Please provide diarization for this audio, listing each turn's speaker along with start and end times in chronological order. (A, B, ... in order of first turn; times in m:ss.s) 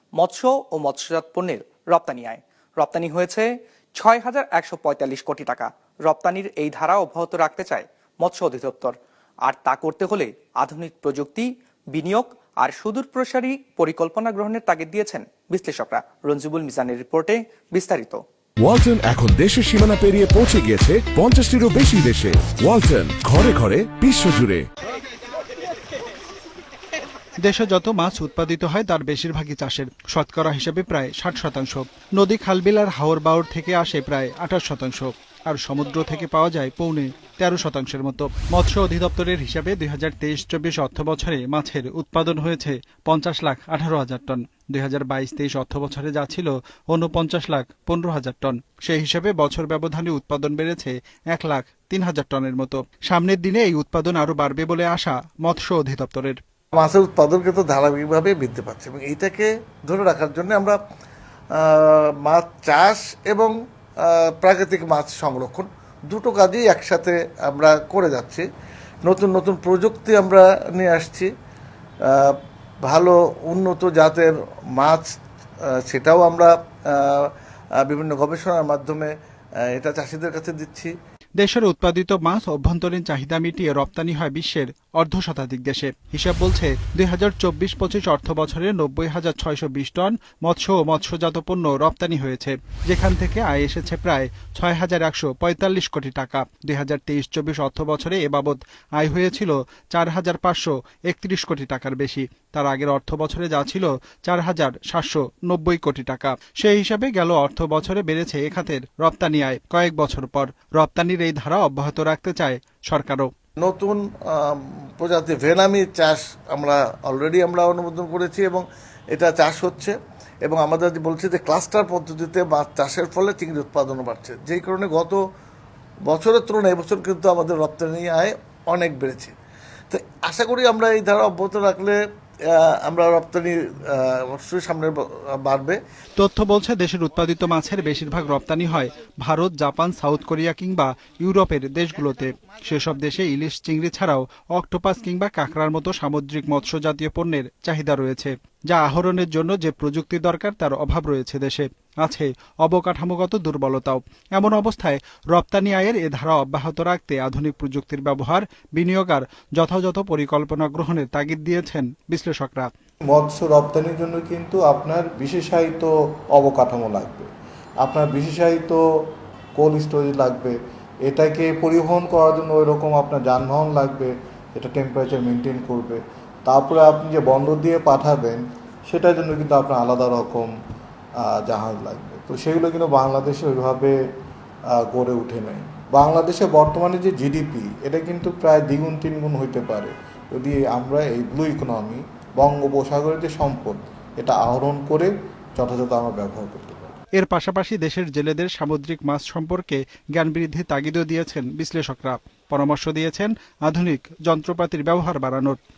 0:00.2-0:08.9 A
0:09.4-0:18.2 A
0:18.6-0:24.7 B
0:27.4-0:56.4 C
0:56.7-1:00.8 D
1:01.5-1:08.4 D
1:09.0-1:11.3 D
1:12.1-1:15.1 D
1:15.6-1:19.1 D
1:19.7-1:20.9 D
1:21.4-1:53.3 C
1:53.6-2:05.2 D
2:06.1-2:09.3 D
2:09.9-2:12.0 D
2:12.5-2:15.8 D
2:16.2-2:42.7 C
2:43.1-2:47.3 E
2:47.8-2:48.8 E
2:49.6-3:00.5 E
3:01.2-3:03.9 E
3:04.7-3:17.0 E
3:17.2-3:25.6 C